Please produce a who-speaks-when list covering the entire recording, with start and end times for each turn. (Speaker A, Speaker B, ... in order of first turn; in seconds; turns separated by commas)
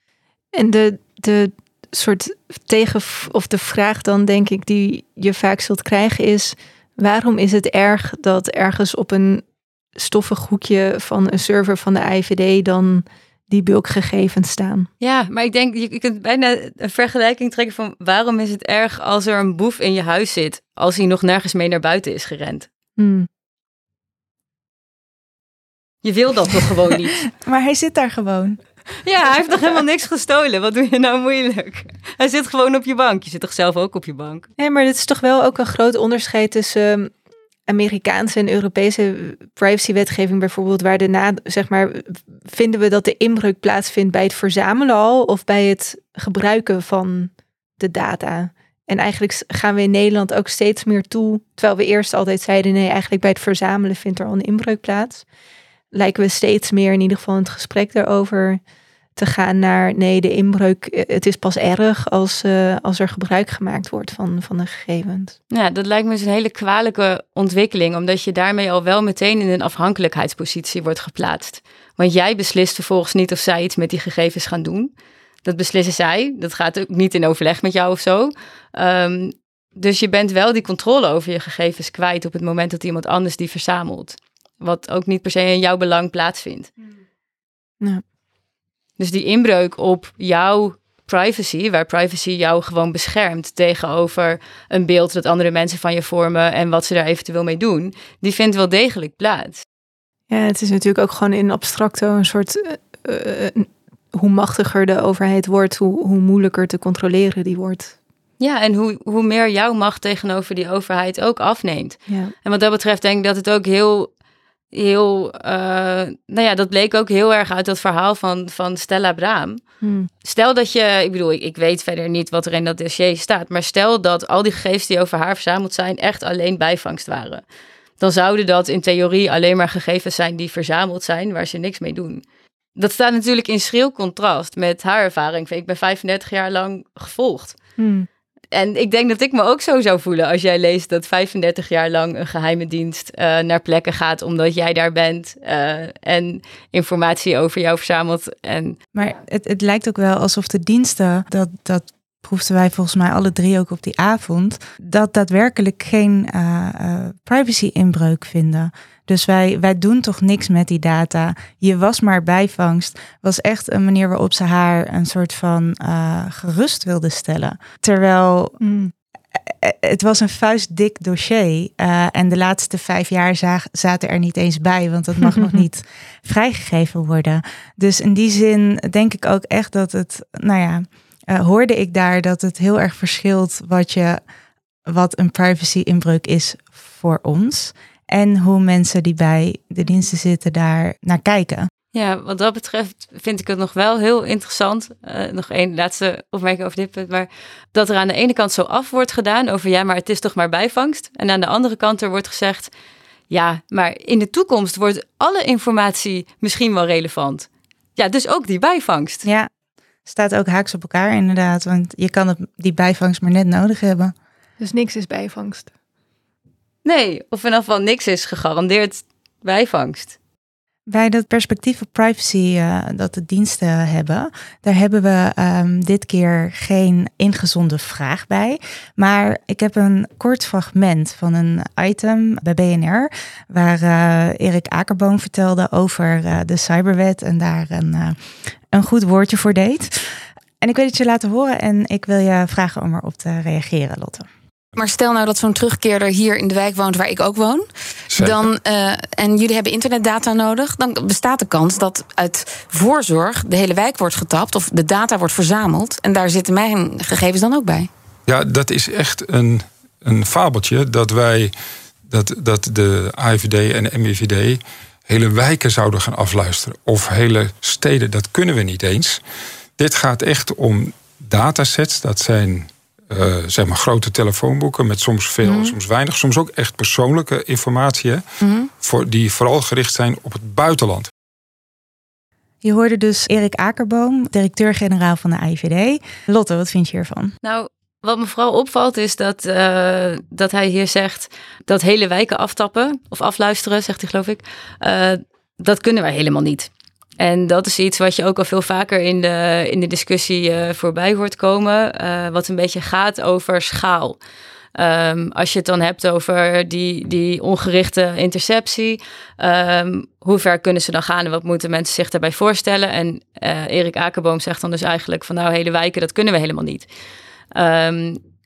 Speaker A: 0.5-9.4, Speaker A: 9.9-14.9, Speaker B: 15.0-22.7, Speaker A: 23.0-23.3, Speaker B: 26.0-27.3, Speaker C: 27.4-28.6, Speaker B: 29.0-34.5, Speaker A: 34.6-37.1, Speaker A: 37.7-55.2, Speaker A: 55.9-58.6, Speaker A: 59.1-65.3, Speaker B: 65.5-74.9, Speaker B: 75.4-86.7, Speaker B: 89.0-99.6, Speaker A: 100.3-107.9, Speaker B: 108.4-114.1, Speaker B: 114.7-119.6, Speaker A: 119.8-120.1, Speaker B: 120.2-127.4, Speaker B: 128.0-132.2, Speaker B: 132.8-137.6, Speaker A: 137.8-138.1, Speaker B: 138.5-148.8, Speaker C: 148.9-168.6, Speaker A: 168.6-168.9, Speaker C: 169.5-184.2, Speaker A: 175.2-175.6, Speaker C: 184.9-191.7, Speaker B: 191.9-202.7, Speaker B: 203.3-209.2, Speaker C: 209.2-209.5, Speaker C: 210.1-214.1, Speaker A: 214.6-215.7, Speaker B: 216.8-220.2, Speaker C: 220.9-238.2, Speaker C: 238.7-240.0, Speaker C: 240.6-244.3, Speaker D: 244.8-257.9, Speaker E: 248.1-248.4, Speaker E: 258.3-261.5, Speaker E: 262.1-269.2, Speaker E: 269.8-278.2, Speaker D: 275.4-275.7, Speaker D: 278.4-278.7, Speaker E: 278.8-281.1, Speaker C: 282.6-287.3, Speaker B: 287.4-304.2, Speaker B: 304.7-316.9, Speaker B: 317.5-318.2